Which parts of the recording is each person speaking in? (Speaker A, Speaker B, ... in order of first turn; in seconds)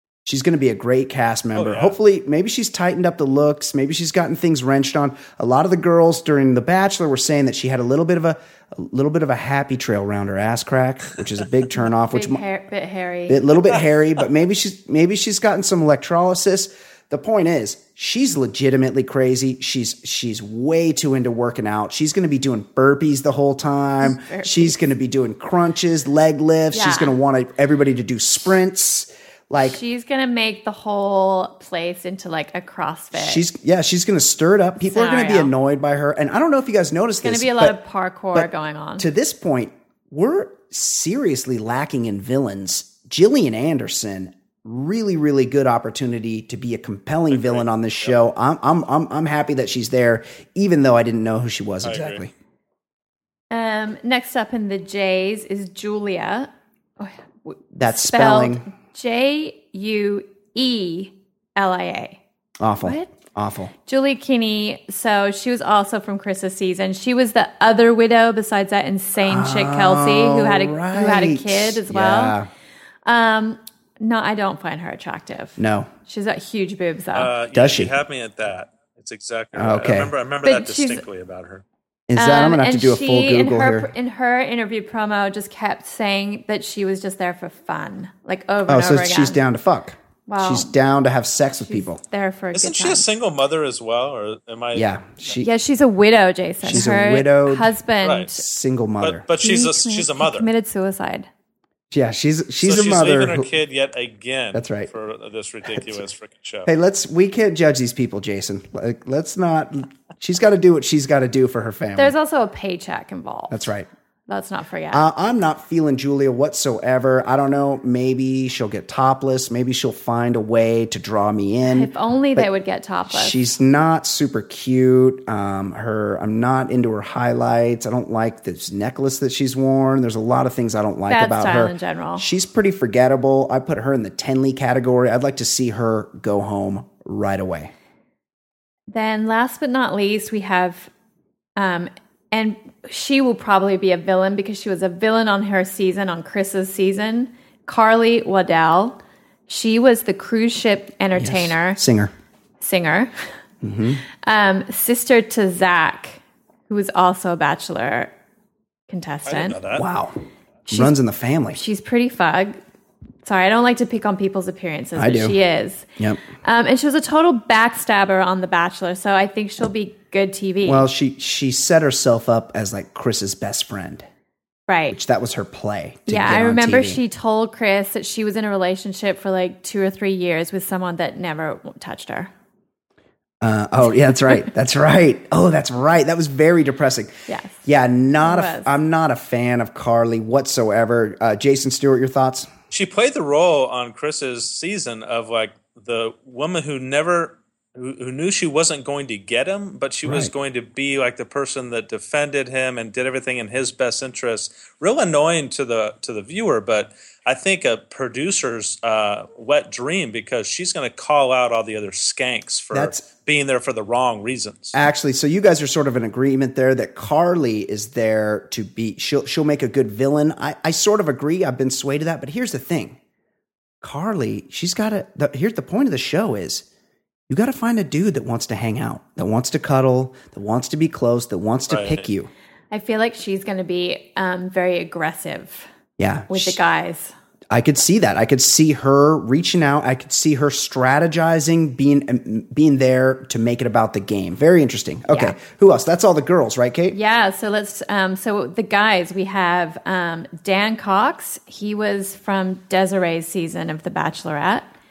Speaker A: 0.2-12.4, 13.3-29.8, 33.1-37.8, 38.3-52.3, 57.7-58.6, 62.6-63.7, 69.2-72.5, 75.6-75.9, 77.5-77.9, 79.5-80.1, 82.1-83.9, 88.7-92.0, 94.7-95.5, 96.6-97.7, 98.3-99.2, 101.9-103.5, 104.5-104.9, 105.8-106.0, 106.7-112.1, 113.5-113.9, 114.9-122.5, 123.1-137.7, 151.2-152.1, 153.6-154.0, 159.7-160.1, 160.7-161.6, 164.9-165.3, 170.6-174.1, 174.9-177.0, 183.4-192.5, 200.0-200.3, 212.7-213.0, 214.7-223.0, 223.8-226.7, 227.3-232.3, 236.0-236.6, 237.5-247.0
Speaker B: 1.5-1.9, 47.3-48.1, 51.8-52.2, 77.1-81.6, 92.5-95.4, 98.0-98.3, 99.0-100.5, 102.6-106.7, 159.2-159.8, 192.7-214.8, 231.7-232.1
Speaker C: 11.7-13.4, 24.0-24.8, 26.7-27.2, 29.6-33.4, 34.8-35.5, 37.2-39.1, 53.5-62.2, 62.8-63.1, 63.8-72.4, 73.0-77.3, 80.4-81.0, 82.2-89.4, 90.3-90.7, 91.7-93.1, 95.4-98.4, 99.4-101.3, 112.0-113.7, 114.3-115.0, 121.6-123.4, 131.1-132.2, 138.9-140.9, 141.6-151.8, 152.6-153.2, 154.2-158.1, 158.9-159.6, 160.7-160.9, 161.5-162.6, 163.2-165.9, 166.4-170.9, 174.7-175.0, 176.1-182.3, 187.3-187.7, 188.2-188.7, 232.7-235.7, 236.3-237.1, 245.1-245.3, 246.9-254.7